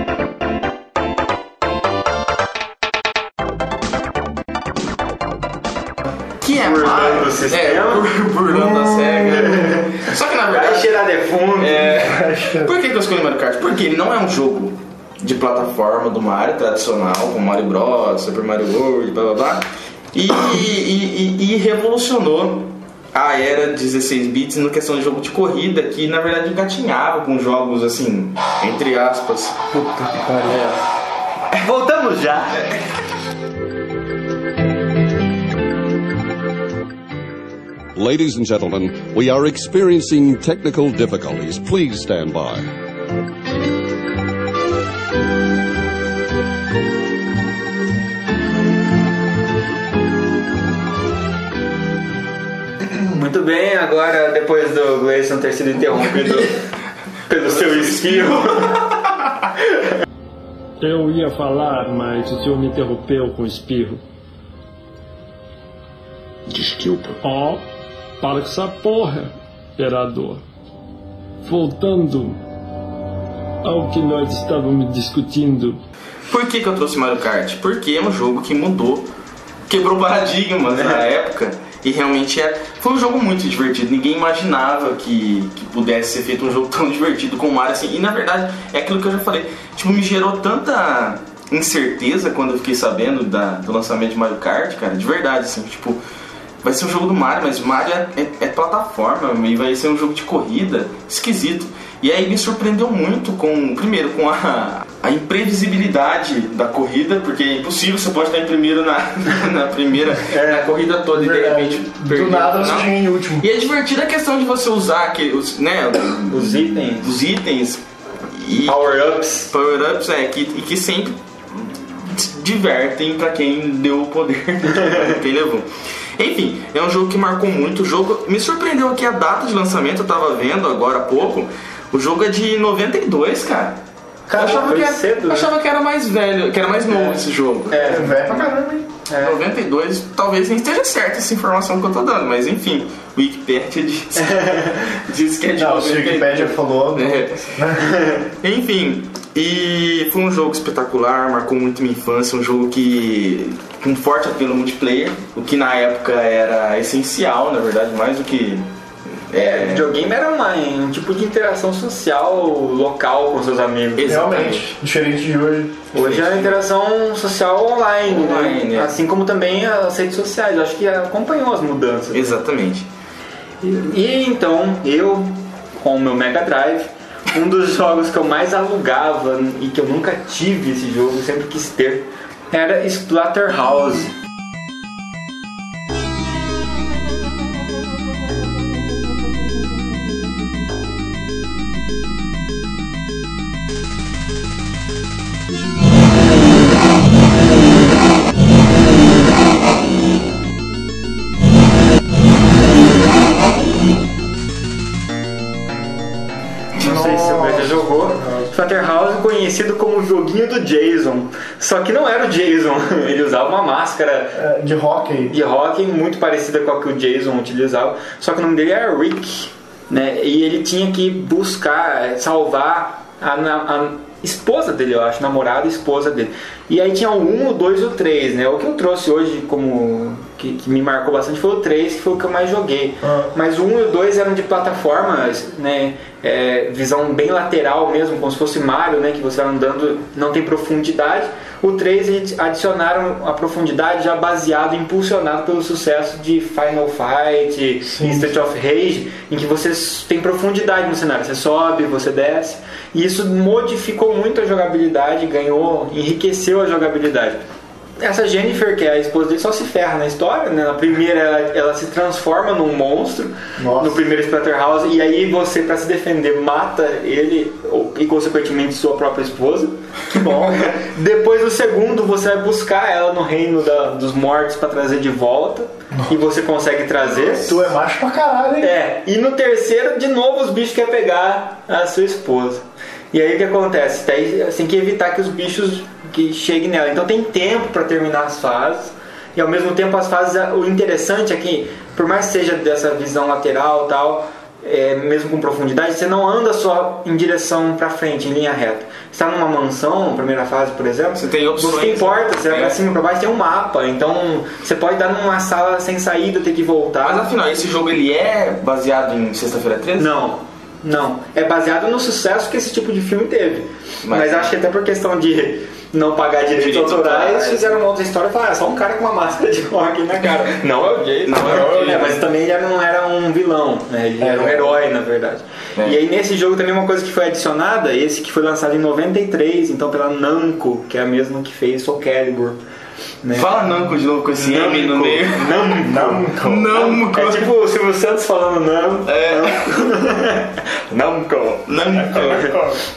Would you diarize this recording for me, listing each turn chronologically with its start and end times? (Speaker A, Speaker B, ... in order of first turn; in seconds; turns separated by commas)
Speaker A: 6.4-10.9, Speaker B: 6.6-8.1, Speaker B: 9.5-9.8, Speaker B: 10.5-12.0, Speaker A: 11.6-29.6, Speaker C: 12.0-12.8, Speaker C: 30.0-30.7, Speaker B: 31.5-32.6, Speaker D: 38.0-42.7, Speaker B: 53.0-56.6, Speaker B: 57.3-58.8, Speaker A: 57.6-58.4, Speaker E: 60.8-64.0, Speaker A: 66.5-67.2, Speaker E: 67.2-67.6, Speaker E: 68.2-70.4, Speaker E: 71.4-72.4, Speaker E: 73.6-75.8, Speaker A: 76.3-79.1, Speaker A: 79.7-96.0, Speaker A: 96.6-117.8, Speaker B: 110.3-110.7, Speaker C: 111.2-113.5, Speaker B: 116.3-117.1, Speaker A: 118.3-133.8, Speaker B: 118.7-119.5, Speaker B: 134.3-135.5, Speaker A: 134.3-138.4, Speaker B: 137.7-138.4, Speaker C: 137.7-138.9, Speaker B: 139.1-139.4, Speaker A: 139.2-147.6, Speaker B: 144.2-144.7, Speaker C: 145.6-148.0, Speaker B: 147.9-148.2, Speaker A: 148.4-158.7, Speaker A: 159.3-159.9, Speaker B: 159.3-164.1, Speaker A: 164.0-164.7, Speaker C: 164.1-165.8, Speaker B: 165.9-172.4, Speaker A: 166.0-166.6, Speaker A: 168.1-168.9, Speaker A: 172.1-172.9, Speaker B: 173.6-184.1, Speaker C: 206.8-208.5, Speaker B: 206.8-214.4, Speaker C: 214.3-215.3, Speaker B: 215.3-257.4, Speaker C: 247.9-248.3, Speaker B: 258.0-269.8, Speaker C: 263.6-264.0, Speaker C: 270.1-270.8, Speaker B: 270.6-277.6, Speaker C: 277.3-278.7, Speaker B: 278.6-307.3, Speaker A: 301.2-302.8, Speaker A: 307.0-310.1, Speaker B: 310.0-332.6, Speaker A: 314.0-314.5, Speaker A: 316.5-317.8, Speaker A: 321.2-322.2, Speaker C: 324.2-324.8, Speaker B: 333.2-333.5, Speaker A: 333.4-335.7, Speaker B: 334.3-342.6, Speaker C: 335.8-336.8, Speaker A: 336.4-337.5, Speaker A: 339.1-339.6, Speaker A: 341.7-342.6